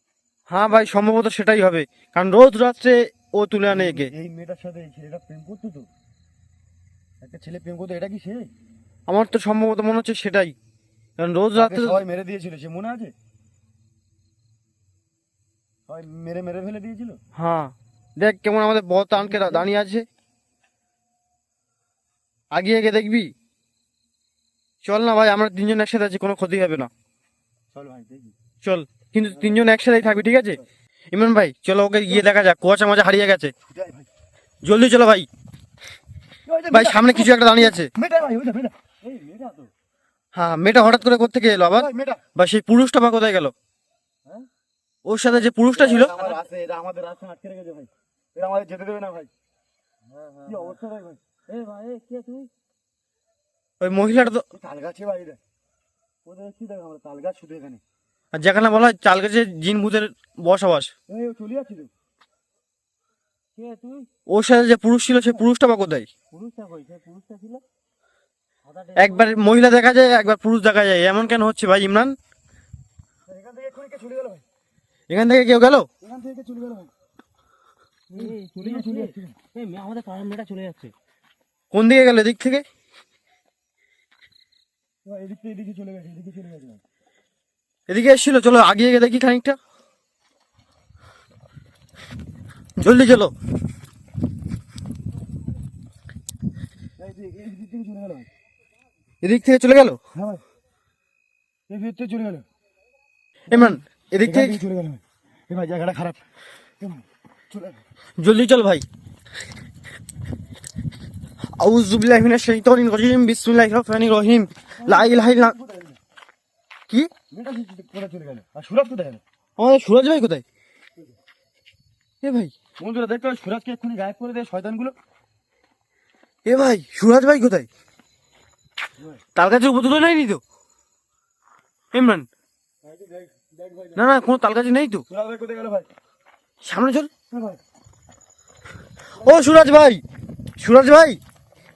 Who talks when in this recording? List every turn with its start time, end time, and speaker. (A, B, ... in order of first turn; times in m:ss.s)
0:00.5-0:04.1 A
0:03.7-0:05.9 B
0:07.2-0:08.5 B
0:09.1-0:10.6 A
0:11.2-0:12.0 A
0:11.6-0:13.1 B
0:15.9-0:17.2 B
0:17.4-0:20.1 A
0:19.2-0:19.7 B
0:22.5-0:23.3 A
0:24.8-0:26.9 A
0:27.7-0:28.4 B
0:28.6-0:30.6 A
0:29.3-0:29.7 B
0:31.1-0:33.5 A
0:33.7-0:34.1 B
0:34.6-0:35.3 A
0:36.5-0:38.8 B
0:36.7-0:37.9 A
0:39.0-0:39.7 C
0:40.3-0:43.5 A
0:41.7-0:42.2 B
0:45.0-0:46.3 A
0:45.7-0:49.3 B
0:50.1-0:50.8 C
0:50.5-0:51.2 B
0:51.5-0:52.5 C
0:53.8-0:54.5 A
0:54.5-0:55.4 B
0:56.3-0:57.8 B
0:58.3-1:00.9 A
1:01.1-1:01.9 B
1:03.6-1:04.1 C
1:04.3-1:06.1 A
1:06.3-1:07.6 C
1:08.6-1:09.4 C
1:09.0-1:12.2 A
1:13.3-1:14.4 B
1:15.1-1:15.9 A
1:16.0-1:16.9 B
1:18.1-1:20.9 C
1:18.1-1:19.4 B
1:21.7-1:22.6 A
1:25.0-1:26.8 B
1:27.9-1:29.6 A
1:32.8-1:33.3 A
1:37.0-1:38.3 B
1:39.2-1:40.0 A
1:40.1-1:40.4 B
1:41.7-1:42.4 B
1:43.5-1:44.6 A
1:43.5-1:46.2 B
1:46.8-1:47.8 B
1:48.2-1:48.9 A
1:51.6-1:55.6 A
1:54.8-1:56.0 B
1:57.3-1:59.2 B
1:59.6-2:00.4 A
2:02.2-2:02.5 A
2:02.8-2:05.0 B
2:06.4-2:07.7 A
2:09.4-2:10.4 A
2:11.9-2:12.3 A
2:12.8-2:14.0 B
2:14.0-2:15.1 A
2:15.1-2:15.9 B
2:16.6-2:17.1 A
2:17.3-2:17.6 B
2:19.2-2:20.0 A
2:19.2-2:19.6 B
2:20.6-2:21.2 A